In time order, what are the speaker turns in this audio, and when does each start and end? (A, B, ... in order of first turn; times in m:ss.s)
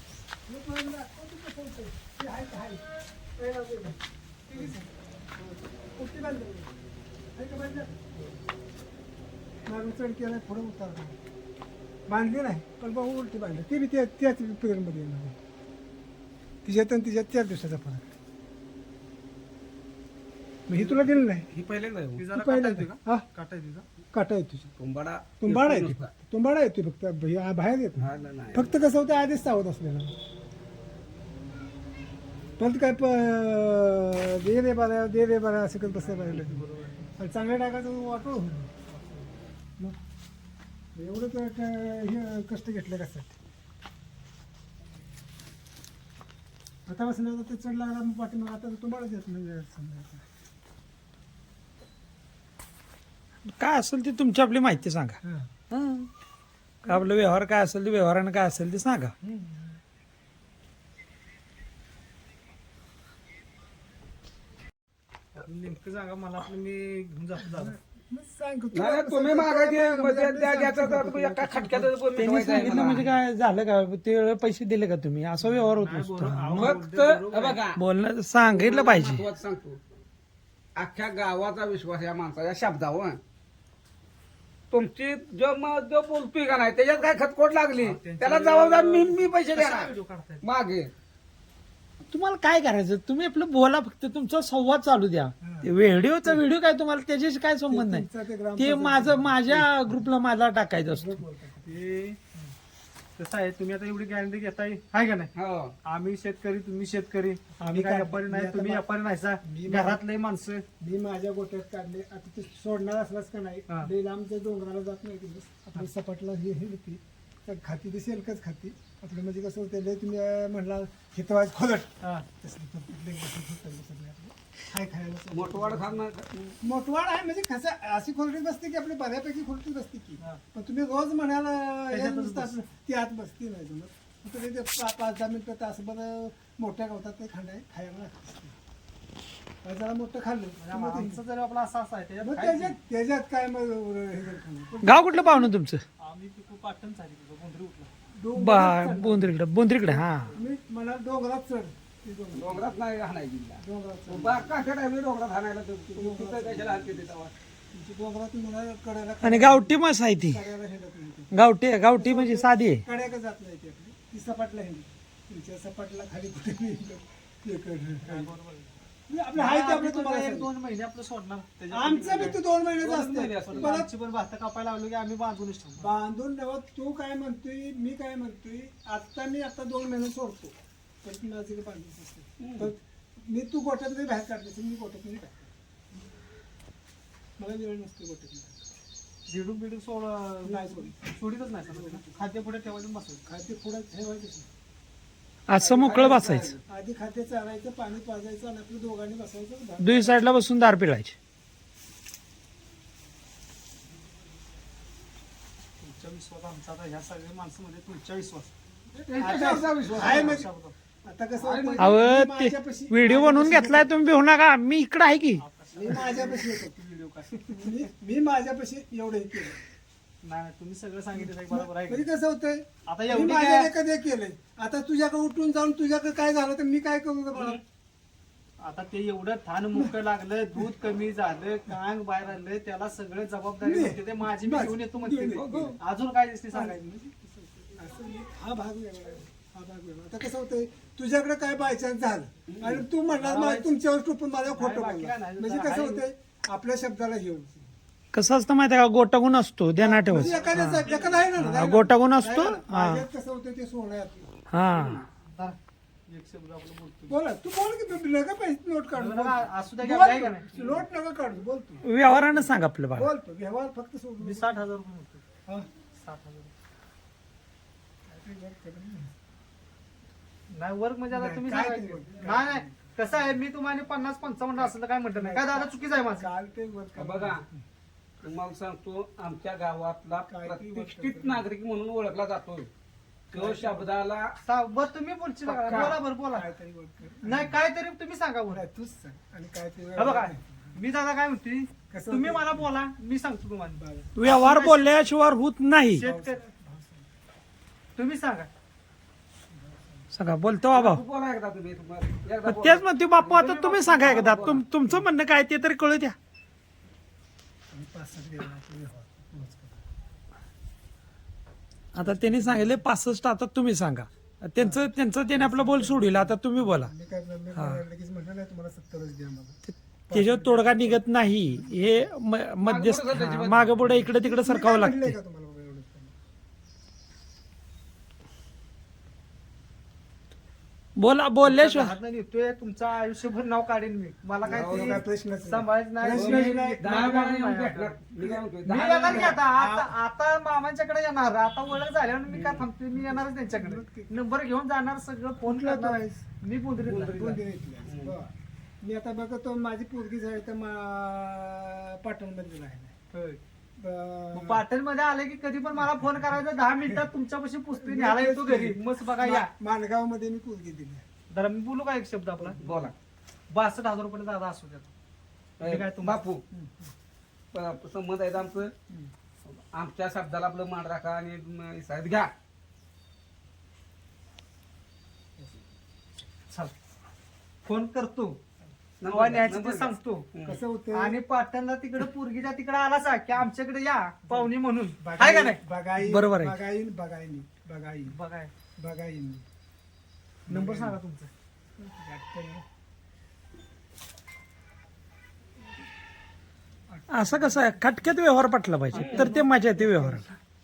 0:00.4-0:04.9 A
0:05.9-0:06.7 A
0:07.3-0:08.0 A
0:09.6-0:11.2 A
0:12.1-0:15.4 A
0:16.6-0:18.1 A
0:20.7-0:21.5 A
0:20.7-0:22.2 B
0:22.2-0:23.8 C
0:22.3-0:23.2 A
0:24.1-0:24.7 A
0:24.8-0:26.1 B
0:25.4-0:30.1 A
0:28.0-0:28.7 B
0:32.6-0:36.6 A
0:35.9-0:37.1 C
0:37.2-0:38.7 A
0:38.9-0:39.3 C
0:40.9-0:43.3 A
0:46.8-0:50.2 A
0:53.5-0:55.2 D
0:55.2-0:55.5 A
0:55.7-0:56.1 D
0:56.8-0:59.1 D
0:59.2-0:59.8 A
1:05.3-1:07.7 C
1:07.4-1:12.9 A
1:08.7-1:13.1 B
1:12.2-1:16.7 D
1:15.6-1:17.6 C
1:16.6-1:17.8 B
1:17.8-1:19.2 D
1:18.5-1:19.8 B
1:20.8-1:23.2 B
1:24.7-1:30.9 B
1:27.7-1:30.4 C
1:32.1-1:41.2 D
1:35.4-1:35.7 A
1:37.7-1:40.0 A
1:40.9-1:41.8 A
1:41.6-1:42.2 C
1:43.2-1:45.3 C
1:45.3-1:45.7 B
1:45.8-1:50.6 C
1:47.6-1:48.9 A
1:49.4-1:50.0 A
1:50.8-2:06.0 A
2:02.0-2:02.2 C
2:05.3-2:06.6 B
2:06.6-2:18.6 A
2:11.9-2:12.6 C
2:19.6-2:21.2 A
2:20.6-2:22.7 C
2:22.2-2:25.5 A
2:24.8-2:25.8 D
2:26.0-2:27.9 C
2:28.1-2:32.8 A
2:28.3-2:30.3 D
2:32.3-2:37.3 B
2:33.6-2:34.6 A
2:35.9-2:37.1 A
2:37.7-2:41.3 A
2:39.2-2:40.4 D
2:41.3-2:42.8 D
2:41.9-2:48.3 A
2:48.0-2:48.7 C
2:49.1-2:50.5 A
2:49.3-2:52.4 C
2:51.7-2:53.9 A
2:52.0-2:53.8 B
2:53.5-2:55.9 C
2:55.8-3:05.5 A
3:02.4-3:02.7 B
3:07.4-3:08.7 A
3:09.3-3:13.2 C
3:10.4-3:12.3 A
3:13.2-3:14.5 A
3:15.5-3:16.5 D
3:15.5-3:16.6 B
3:16.6-3:20.3 A
3:19.8-3:21.2 D
3:25.8-3:28.5 C
3:28.9-3:30.5 A
3:29.1-3:30.4 B
3:29.2-3:30.7 C
3:31.0-3:34.0 A
3:31.4-3:31.9 B
3:31.8-3:35.4 D
3:35.4-3:37.8 C
3:35.7-3:36.8 A
3:37.5-3:39.6 A
3:40.2-3:42.0 C
3:41.1-3:47.6 A
3:42.8-3:43.7 C
3:48.6-3:56.9 C
3:53.6-3:55.8 A
3:55.3-3:55.8 B
3:56.5-4:07.6 A
4:02.5-4:02.8 B
4:03.1-4:03.7 C
4:04.5-4:06.0 C
4:08.1-4:13.0 D
4:09.8-4:14.3 A
4:10.1-4:11.2 C
4:10.2-4:11.2 B
4:14.5-4:15.0 D
4:14.7-4:15.0 B
4:15.2-4:17.2 C
4:17.1-4:24.6 A
4:18.9-4:20.5 C
4:20.6-4:20.8 B
4:21.8-4:23.1 D
4:24.2-4:25.2 C
4:26.0-4:26.5 C
4:28.1-4:29.1 A
4:30.5-4:36.3 C
4:31.1-4:32.9 A
4:35.1-4:37.6 A
4:37.0-4:37.4 B
4:38.2-4:42.7 B
4:40.3-4:41.5 A
4:43.3-4:43.9 A
4:43.3-4:44.3 B
4:44.4-4:46.5 C
4:45.4-4:46.0 B
4:45.7-4:47.6 A
4:47.2-4:48.6 C
4:48.5-4:50.7 A
4:50.0-4:54.9 C
4:51.9-4:52.7 A
4:53.8-4:54.1 A
4:54.1-4:56.1 D
4:55.9-4:56.4 C
4:56.0-4:57.1 A
4:58.0-4:58.5 C
4:59.5-5:00.0 A
5:00.1-5:01.0 D
5:00.7-5:04.7 B
5:02.4-5:06.2 D
5:03.2-5:03.6 C
5:07.7-5:09.8 A
5:11.9-5:16.9 D
5:12.0-5:12.8 A
5:14.6-5:19.6 A
5:17.5-5:17.8 D
5:19.6-5:25.2 D
5:20.1-5:22.0 A
5:22.6-5:24.0 B
5:23.9-5:26.1 A
5:31.0-5:31.9 D
5:31.4-5:38.0 C
5:34.4-5:36.8 A
5:34.4-5:35.0 B
5:36.1-5:39.4 B
5:38.6-5:47.2 C
5:39.0-5:39.9 A
5:42.3-5:42.6 B
5:43.2-5:44.1 A
5:45.4-5:46.2 A
5:46.8-5:48.2 B
5:47.0-5:48.3 A
5:48.8-5:52.9 A
5:53.1-5:53.4 C
5:53.8-5:54.6 A
5:54.3-5:59.5 C
5:57.8-6:01.0 A
6:01.3-6:02.6 C
6:02.4-6:02.7 A
6:02.6-6:02.9 B
6:03.5-6:04.9 C
6:05.6-6:06.4 B
6:05.6-6:06.2 C
6:06.5-6:06.9 A
6:07.5-6:08.7 B
6:09.4-6:12.3 B
6:17.6-6:18.4 C
6:19.0-6:20.6 B
6:19.0-6:20.3 C
6:20.4-6:21.2 A
6:20.9-6:25.6 C
6:24.3-6:28.2 A
6:26.0-6:26.6 D
6:28.1-6:28.5 C
6:28.8-6:29.4 A
6:30.5-6:31.0 A
6:30.5-6:31.3 C
6:31.8-6:32.6 A
6:36.9-6:37.8 A
6:37.1-6:40.2 D
6:38.9-6:39.3 B
6:38.9-6:40.3 C